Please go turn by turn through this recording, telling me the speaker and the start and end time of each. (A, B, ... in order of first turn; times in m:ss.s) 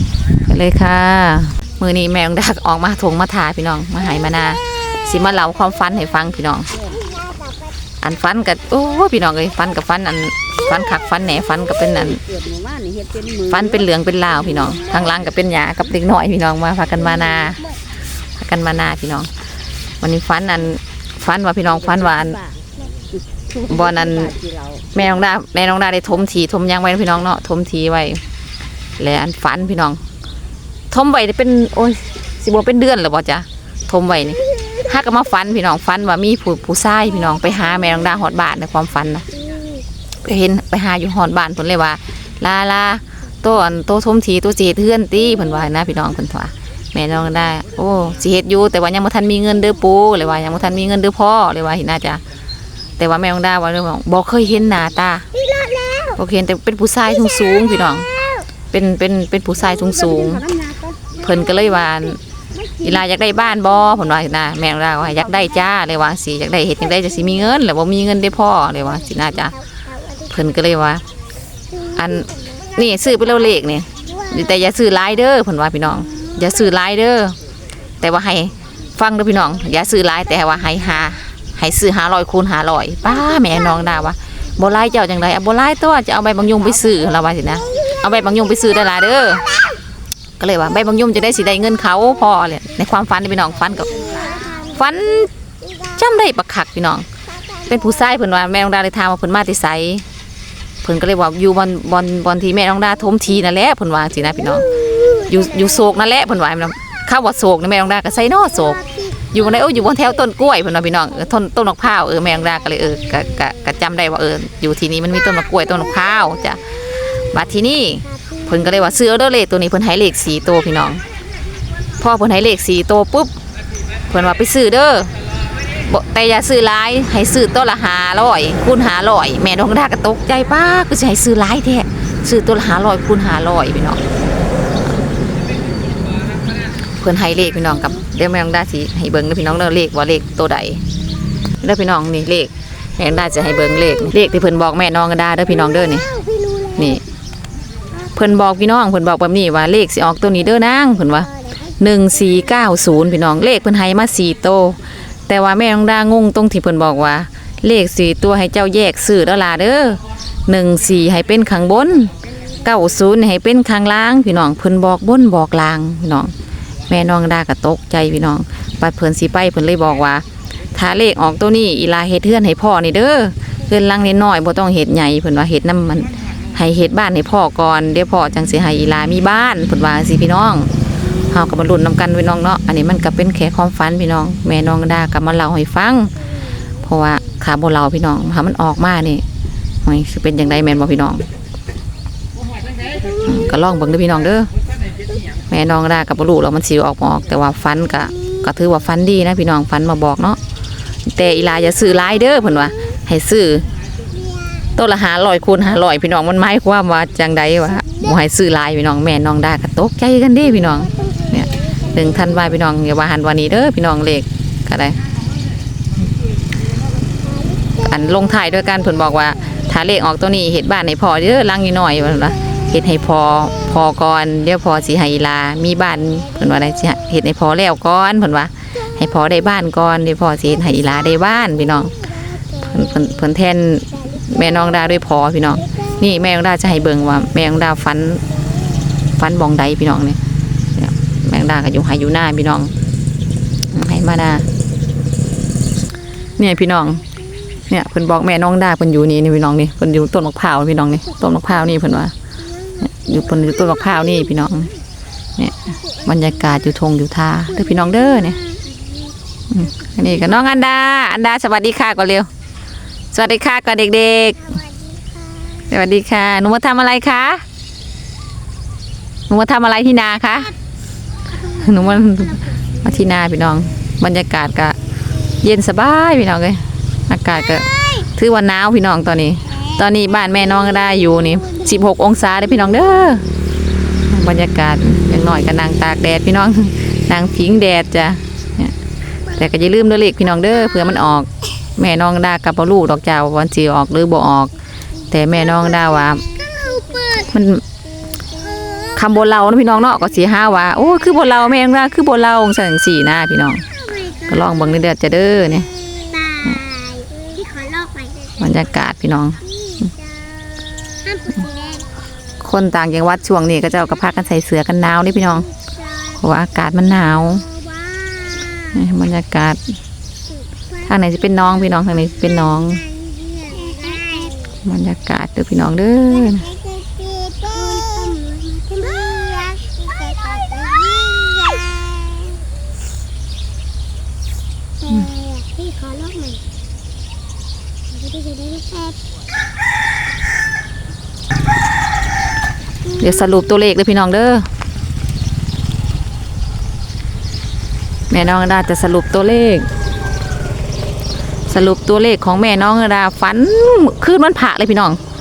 0:00.4-0:06.8 A
0:08.0-0:12.2 A
0:12.3-0:13.4 B
0:13.4-0:17.7 A
0:18.4-0:19.3 A
0:20.0-0:22.4 A
0:23.7-0:24.4 A
0:24.3-0:24.8 B
0:24.9-0:28.2 A
0:29.0-0:30.0 A
0:30.9-0:39.4 A
0:40.2-0:52.2 A
0:53.0-0:55.3 A
0:55.6-0:55.9 B
0:56.1-1:00.5 A
1:00.3-1:01.1 B
1:01.2-1:02.2 A
1:02.8-1:11.0 A
1:11.8-1:17.4 A
1:18.0-1:29.6 A
1:30.4-1:35.3 A
1:35.8-1:40.0 A
1:40.8-2:01.0 A
2:02.0-2:03.3 A
2:04.1-2:05.1 A
2:05.8-2:14.0 A
2:16.9-2:20.8 A
2:21.6-2:27.0 A
2:28.1-2:46.3 A
2:46.9-3:00.7 A
3:01.3-3:06.1 A
3:06.8-3:09.2 A
3:09.8-3:11.3 A
3:13.1-3:14.5 A
3:15.5-3:20.4 A
3:21.1-3:23.7 A
3:24.8-3:35.0 A
3:37.7-3:58.2 A
3:59.2-4:00.2 A
4:00.8-4:02.7 A
4:03.7-4:04.5 A
4:06.4-4:07.1 A
4:07.7-4:12.1 A
4:12.8-4:14.7 A
4:15.4-4:18.5 A
4:19.5-4:22.3 A
4:23.1-4:24.6 A
4:25.5-4:27.4 A
4:29.3-4:30.5 A
4:31.4-4:34.8 A
4:35.3-4:43.3 A
4:44.1-4:48.8 A
4:49.3-4:54.6 A
4:55.1-4:56.3 A
4:57.0-4:57.6 A
4:58.9-5:05.7 A
5:07.0-5:08.2 B
5:08.3-5:09.9 A
5:11.5-5:11.8 B
5:12.4-5:15.5 A
5:16.0-5:17.5 A
5:18.6-5:19.6 A
5:20.8-5:22.9 A
5:23.4-5:24.1 B
5:24.4-5:26.5 A
5:27.0-5:31.5 B
5:35.1-5:36.4 B
5:38.1-5:38.8 B
5:42.9-5:44.5 A
5:48.1-5:49.7 A
5:51.5-5:55.0 A